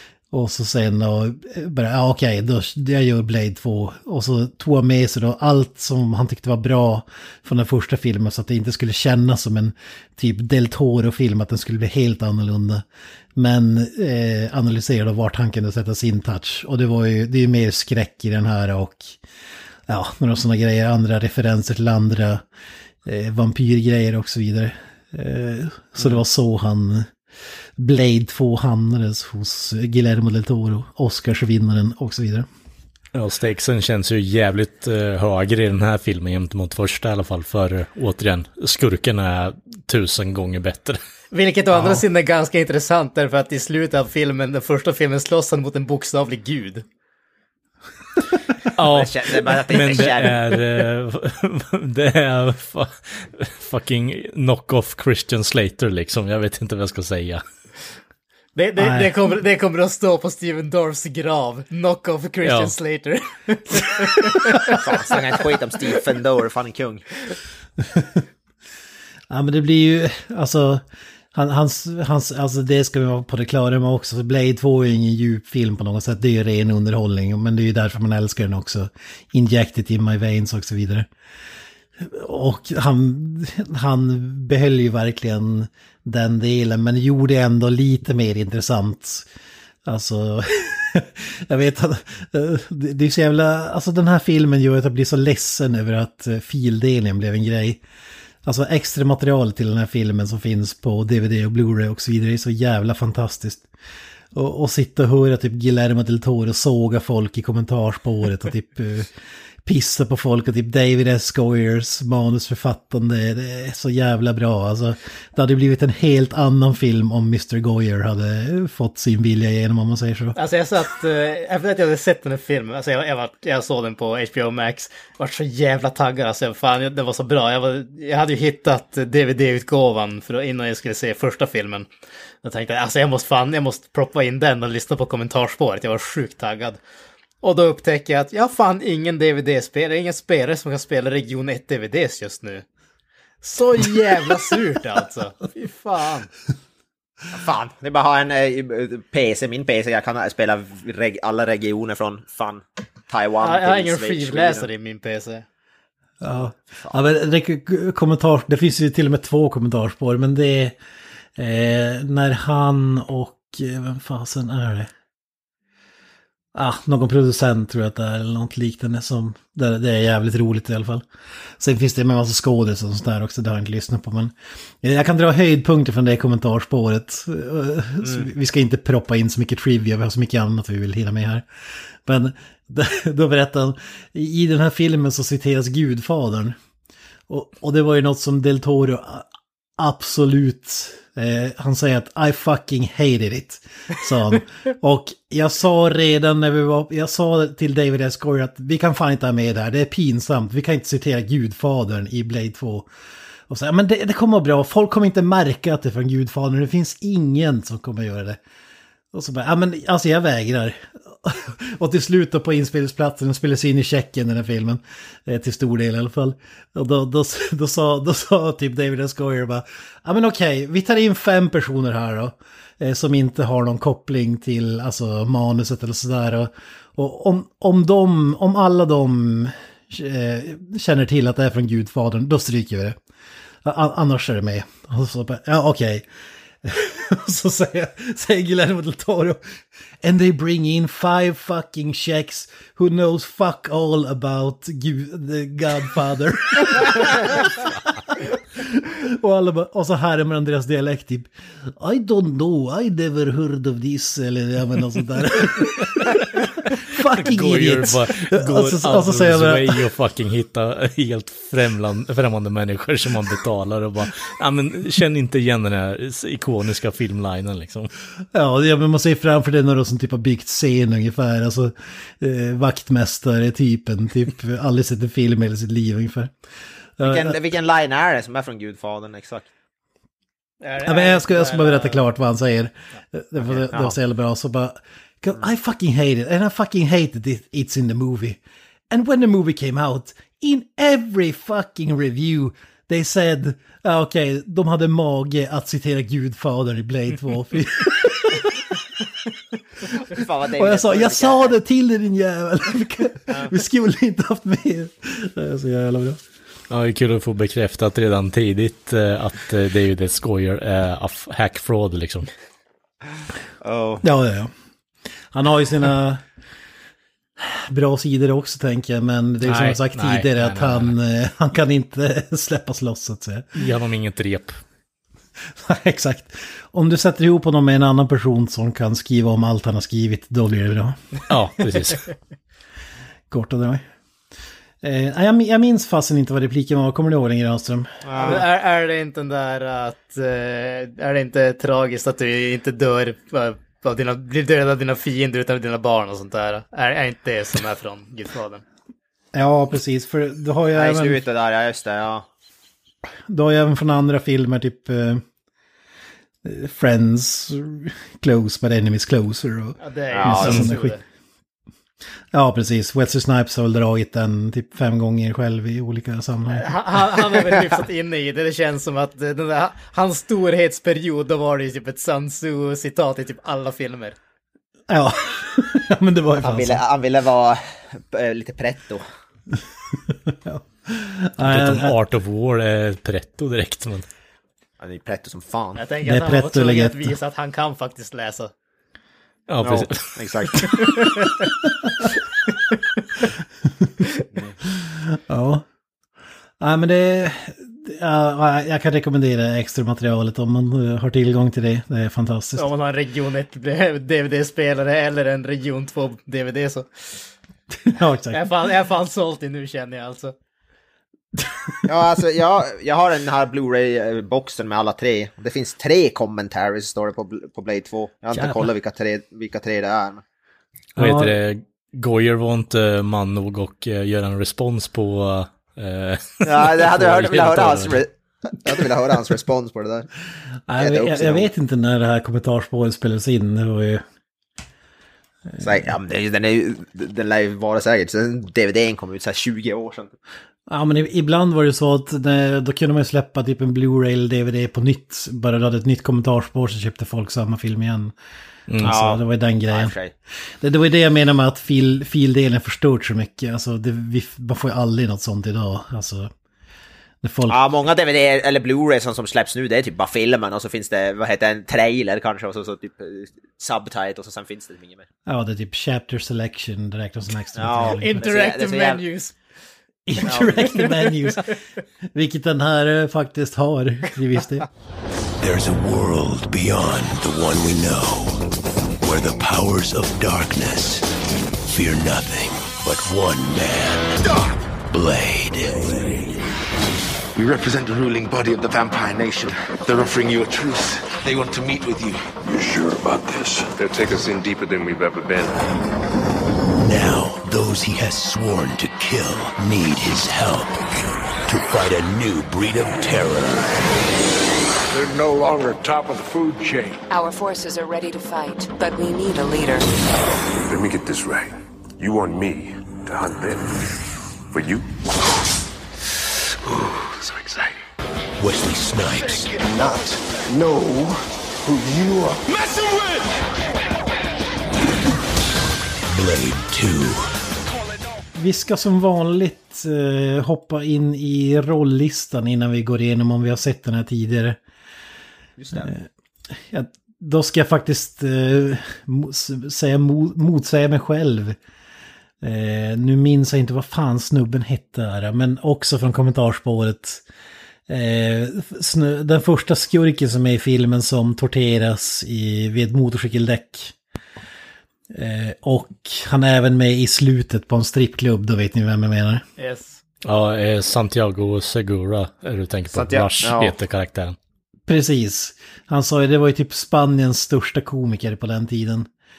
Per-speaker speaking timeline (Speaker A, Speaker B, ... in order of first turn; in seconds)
Speaker A: 0.3-12.8, 13.4-19.2, 19.9-22.4, 23.1-27.1, 27.8-32.5, 58.8-59.1, 69.3-70.8, 71.3-81.1, 82.0-89.3, 89.9-97.8, 98.4-103.7, 104.3-109.1, 109.6-120.4, 156.2-160.8, 161.4-164.9, 166.5-171.1, 171.6-181.5, 182.0-186.6, 187.3-202.9, 203.5-208.4, 209.1-233.0, 233.6-236.1, 236.6-259.9, 268.3-276.3, 277.0-277.4, 280.9-288.4, 288.9-298.8, 300.6-306.2, 314.0-314.5, 315.3-316.2, 317.4-323.7, 325.5-331.2, 333.3-333.8, 334.8-338.4, 349.3-351.2, 353.3-355.2, 356.4-361.0, 362.3-366.7, 374.9-376.8, 380.1-382.0, 386.1-387.1, 393.6-393.9, 394.8-395.6, 396.6-402.7, 407.7-408.4, 411.4-412.1, 418.3-418.7, 421.0-421.4, 430.7-434.0, 435.5-435.8, 440.7-448.1, 448.8-449.9, 450.6-456.3, 457.2-457.6, 465.3-468.2, 470.1-471.6, 472.1-474.7, 528.4-534.6, 535.8-536.1, 536.6-541.6, 542.4-547.2, 547.9-553.9, 555.1-559.4, 564.9-569.1
Speaker B: 33.1-41.0, 48.8-57.4, 62.5-62.7, 257.1-267.9, 306.7-312.3, 319.4-320.9, 323.6-324.6, 331.3-332.1, 381.4-384.1, 389.5-390.7, 421.0-428.0, 560.2-564.4
Speaker C: 41.3-46.9, 58.6-64.8, 120.4-131.9, 132.4-136.8, 137.4-142.6, 143.4-146.3, 153.4-155.4, 280.6-282.0, 338.2-348.6, 359.8-361.0, 366.5-374.2, 385.8-388.5, 390.8-391.3, 402.6-407.3, 408.3-410.3, 467.9-469.3, 470.5-471.1, 559.6-560.0
Speaker D: 48.8-50.4, 64.6-67.0, 147.3-154.7, 156.5-157.0, 277.0-279.5, 283.4-283.9, 300.1-301.6, 313.6-314.0, 338.0-338.4, 350.7-352.3, 360.1-360.7, 376.4-379.1, 384.8-385.8, 389.6-390.9, 411.9-420.2, 426.4-430.1, 430.8-431.5, 435.6-440.1, 448.8-449.2, 449.7-450.1, 457.5-465.1, 467.6-469.0, 470.2-470.7, 535.6-535.9, 562.9-563.8
Speaker E: 475.4-478.5, 479.0-484.2, 484.9-486.4, 496.7-503.8, 518.4-520.1, 526.1-527.3
Speaker F: 487.4-492.3, 519.7-521.1, 521.7-522.4
Speaker G: 492.5-495.7, 510.7-513.8, 514.5-514.9
Speaker H: 504.9-507.0
Speaker I: 507.1-509.9